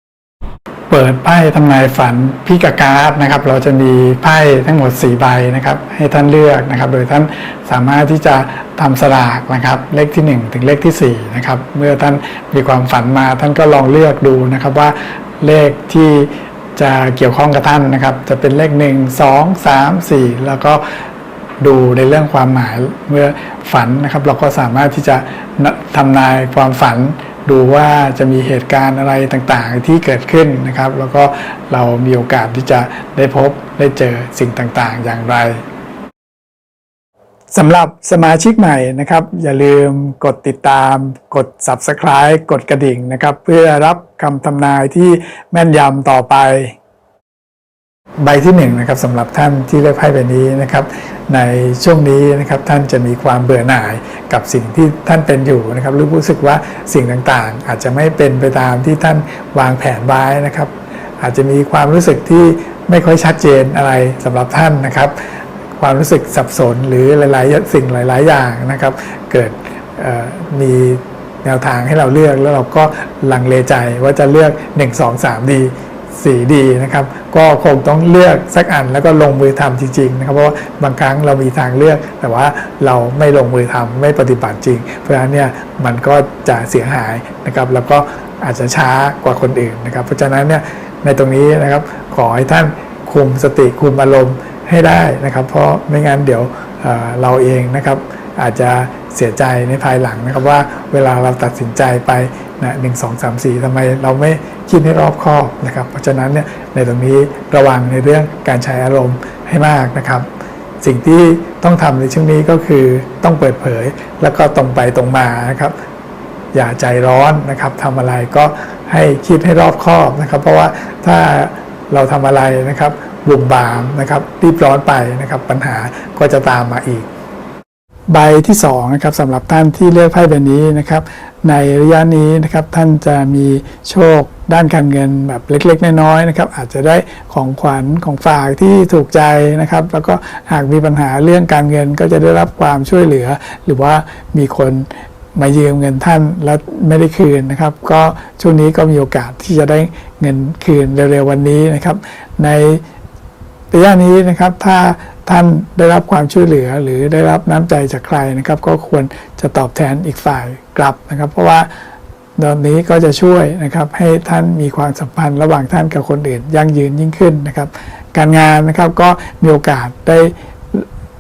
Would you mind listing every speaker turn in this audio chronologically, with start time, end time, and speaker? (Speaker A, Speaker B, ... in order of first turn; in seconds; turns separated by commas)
Speaker A: 0.9-20.8, Speaker A: 21.6-35.6, Speaker A: 37.5-46.8, Speaker A: 48.2-65.2, Speaker A: 65.8-110.3, Speaker A: 110.8-115.7, Speaker A: 116.5-127.1, Speaker A: 128.1-152.8, Speaker A: 153.7-161.7, Speaker A: 162.4-170.9